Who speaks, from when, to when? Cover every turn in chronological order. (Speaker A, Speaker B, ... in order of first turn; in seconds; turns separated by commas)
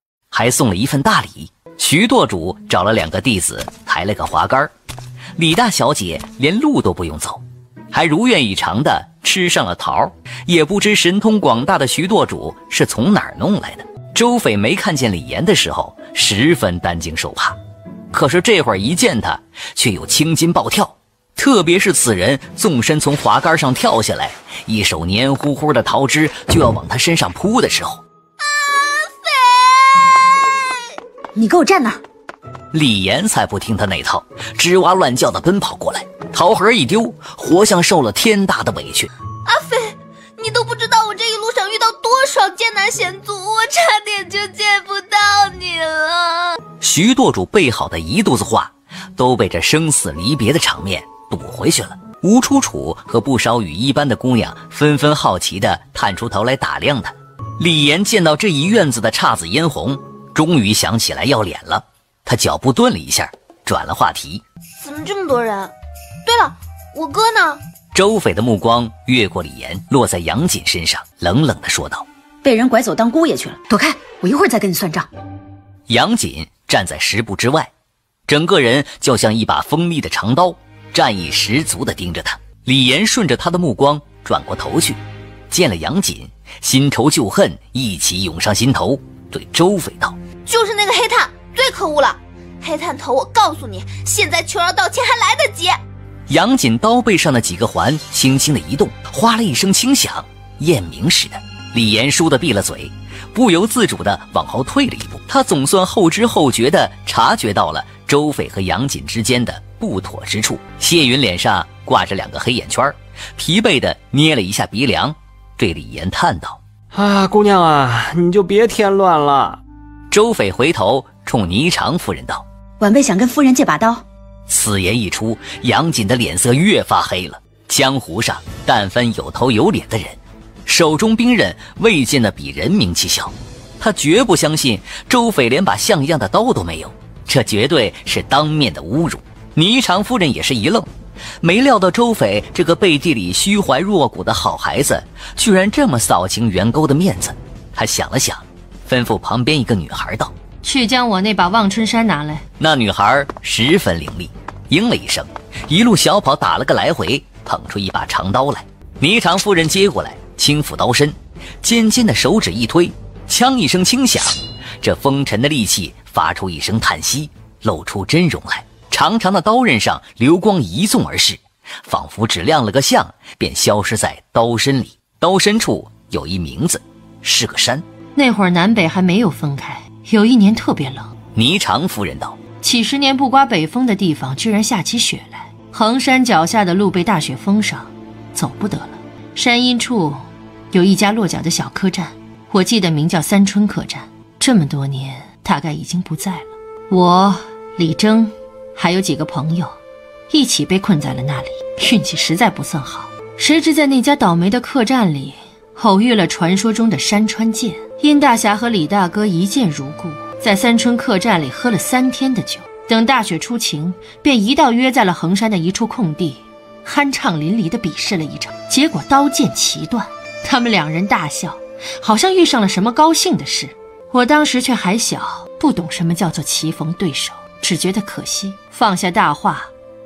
Speaker A: 0.3-4.7, Speaker A: 5.4-7.4, Speaker A: 7.9-17.6, Speaker A: 18.1-28.0, Speaker B: 28.4-30.8, Speaker C: 31.4-32.0, Speaker A: 32.7-39.1, Speaker B: 39.5-46.6, Speaker A: 46.8-64.4, Speaker B: 64.8-65.7, Speaker B: 66.2-67.6, Speaker A: 67.9-72.0, Speaker C: 72.4-75.1, Speaker A: 75.9-77.7, Speaker A: 78.3-85.0, Speaker A: 85.5-90.2, Speaker B: 90.5-95.8, Speaker A: 96.3-116.6, Speaker D: 116.9-119.6, Speaker A: 120.1-122.4, Speaker C: 122.8-124.0, Speaker A: 124.5-140.9, Speaker A: 141.4-150.3, Speaker E: 150.6-152.4, Speaker A: 152.6-177.8, Speaker E: 178.2-181.1, Speaker A: 181.3-182.4, Speaker E: 182.6-199.8, Speaker E: 200.3-229.7